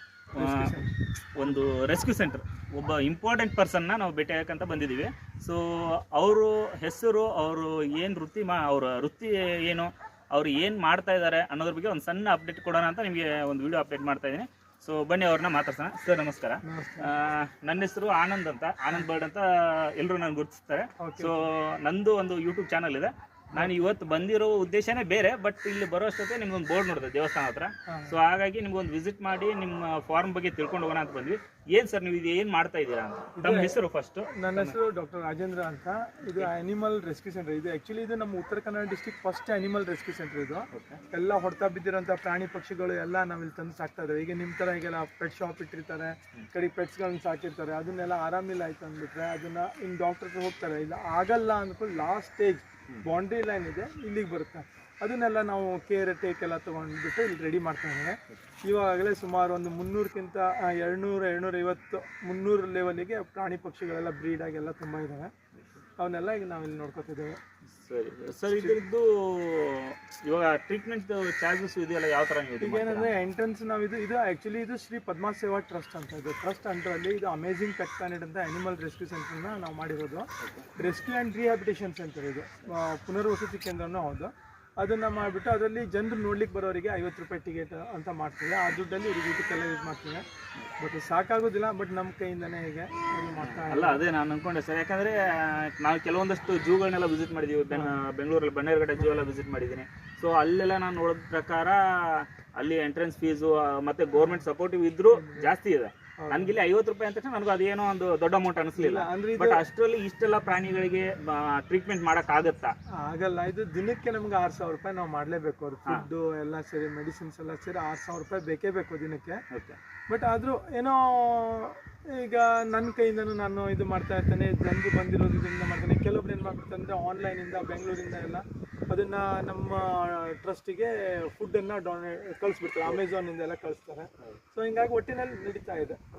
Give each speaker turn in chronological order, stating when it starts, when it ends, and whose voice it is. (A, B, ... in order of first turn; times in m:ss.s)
0:00.4-0:00.7 A
0:00.4-0:00.9 B
0:01.4-0:34.8 A
0:16.6-0:17.2 B
0:21.0-0:21.5 B
0:27.9-0:28.2 B
0:33.4-0:33.8 B
0:34.4-1:05.3 B
0:40.7-0:41.0 A
1:06.0-1:07.4 B
1:07.8-1:13.1 A
1:08.5-1:08.8 B
1:12.6-1:30.2 B
1:30.8-1:34.0 B
1:33.4-1:52.7 A
1:37.7-1:38.0 B
1:44.1-1:44.5 B
1:45.1-1:45.5 B
1:46.2-1:46.6 B
1:48.8-1:49.7 B
1:53.0-1:59.4 B
1:59.5-1:59.8 A
2:00.1-2:16.0 B